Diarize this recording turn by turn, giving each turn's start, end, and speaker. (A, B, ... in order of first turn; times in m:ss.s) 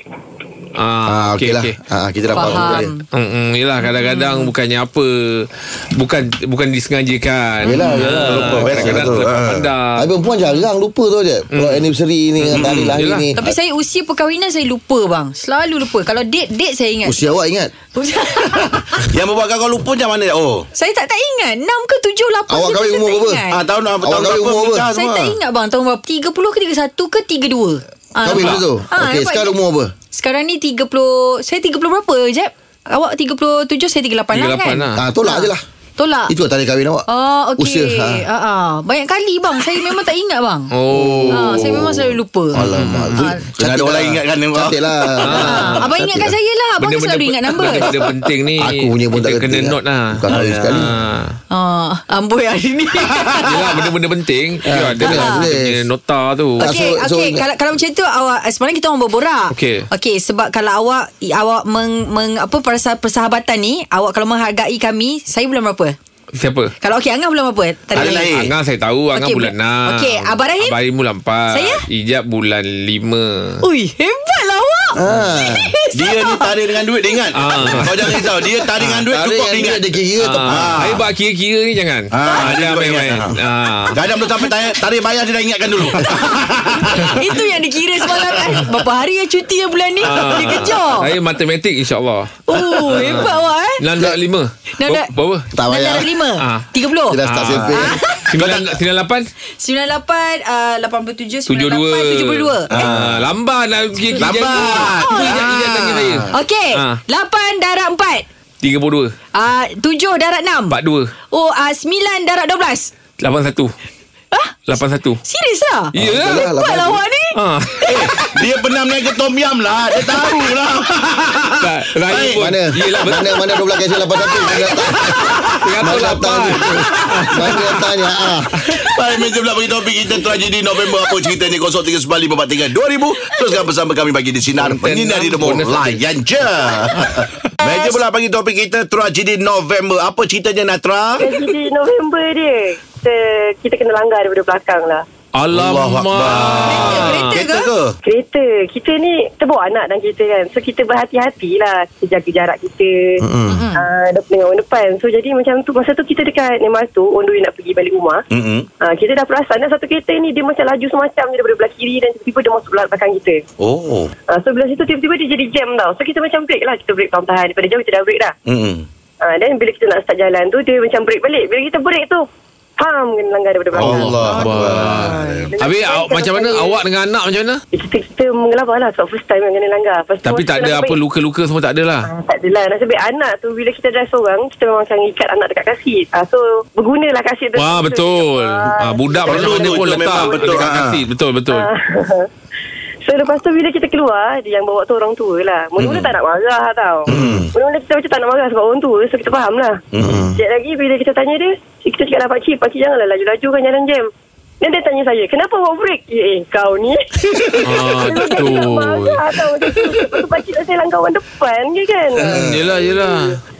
0:00.8-0:01.8 A
0:01.0-0:02.9 B
0:02.3-0:10.1 A
0:02.3-0:03.0 C
0:03.9-0:04.5 C
0:07.6-0:09.3 B
0:07.8-0:09.7 D
0:09.9-0:13.5 B
0:11.5-0:11.9 A
0:12.4-0:13.3 A
0:12.5-0:12.9 D
0:13.4-0:17.2 C
0:17.0-0:17.7 B
0:17.9-0:19.0 C
0:19.0-0:20.6 D
0:20.8-0:23.6 C
0:22.5-0:23.4 B
0:23.5-0:25.4 D
0:24.0-0:24.9 B
0:24.9-0:29.6 C
0:28.2-0:29.9 B
0:28.2-0:28.6 A
0:30.1-0:36.3 C
0:34.3-0:35.0 A
0:35.0-0:35.6 B
0:36.3-0:37.0 B
0:37.1-0:40.7 C
0:37.6-0:38.2 B
0:40.7-0:42.1 A
0:40.9-0:41.7 B
0:41.3-0:43.4 C
0:42.5-0:46.4 B
0:42.7-0:43.1 A
0:43.3-0:44.8 D
0:45.2-0:45.9 A
0:45.4-0:48.0 C
0:46.8-0:51.3 A
0:47.7-0:50.9 B
0:50.3-0:50.9 D
0:51.5-0:53.5 C
0:53.4-0:56.7 A
0:54.7-0:55.8 B
0:55.1-0:55.5 C
0:56.6-0:57.5 B
0:56.6-1:06.0 C
0:59.5-0:59.8 A
1:06.3-1:06.7 A
1:06.8-1:08.3 C
1:07.9-1:08.5 D
1:08.0-1:13.6 A
1:09.1-1:10.8 C
1:11.5-1:11.8 C
1:13.6-1:16.5 C
1:15.0-1:15.7 B
1:15.9-1:19.9 D
1:17.4-1:18.0 A
1:18.8-1:20.9 B
1:20.2-1:24.0 A
1:20.5-1:21.0 D
1:22.1-1:23.3 D
1:23.9-1:27.4 D
1:27.1-1:31.1 C
1:30.0-1:35.5 A
1:32.5-1:33.8 C
1:34.8-1:35.1 C
1:35.5-1:36.1 B
1:35.7-1:37.2 C
1:36.4-1:36.6 A
1:37.1-1:38.0 B
1:37.2-1:37.8 A
1:37.7-1:38.7 D
1:37.7-1:38.3 C
1:38.3-1:39.3 A
1:39.6-1:42.7 C
1:41.5-1:47.0 A
1:42.7-1:43.2 D
1:44.2-1:45.5 C
1:44.2-1:46.3 D
1:46.3-1:48.2 C
1:48.6-1:49.1 A
1:49.3-1:50.8 C
1:50.7-1:51.1 A
1:51.3-1:52.9 C
1:53.2-1:53.7 A
1:54.3-1:54.6 C
1:54.7-1:55.2 A
1:55.2-1:58.3 C
1:55.9-1:56.5 A
1:55.9-1:57.0 B
1:57.4-1:57.9 A
1:57.9-2:02.4 D
2:00.0-2:00.4 C
2:01.6-2:03.7 A
2:02.4-2:08.5 B
2:04.4-2:04.8 D
2:05.0-2:07.8 A
2:08.6-2:21.4 D
2:14.6-2:16.0 A
2:17.7-2:17.9 C
2:21.2-2:25.0 E
2:25.4-2:27.4 A
2:25.5-2:28.0 D
2:26.3-2:27.7 C
2:28.1-2:33.2 E
2:33.2-2:33.6 B
2:33.5-2:33.8 C
2:33.8-2:38.2 E
2:38.3-2:38.7 D
2:38.8-2:43.4 E
2:43.6-2:44.1 D
2:44.3-2:48.3 E
2:48.5-2:48.9 D
2:49.2-2:52.2 E
2:52.8-2:56.8 E
2:53.7-2:55.5 D
2:53.8-2:57.6 A
2:57.7-3:01.0 E
3:00.2-3:02.1 A
3:02.1-3:10.5 E
3:07.5-3:11.7 A
3:09.2-3:11.0 D
3:11.5-3:12.2 E
3:13.0-3:19.7 E
3:15.8-3:16.1 D
3:17.0-3:17.5 D
3:17.1-3:17.5 B
3:19.9-3:20.3 D
3:20.0-3:20.4 B
3:20.4-3:24.0 E
3:24.6-3:27.3 E
3:27.6-3:30.2 A
3:27.8-3:33.4 E
3:32.2-3:33.4 A
3:32.2-3:32.7 D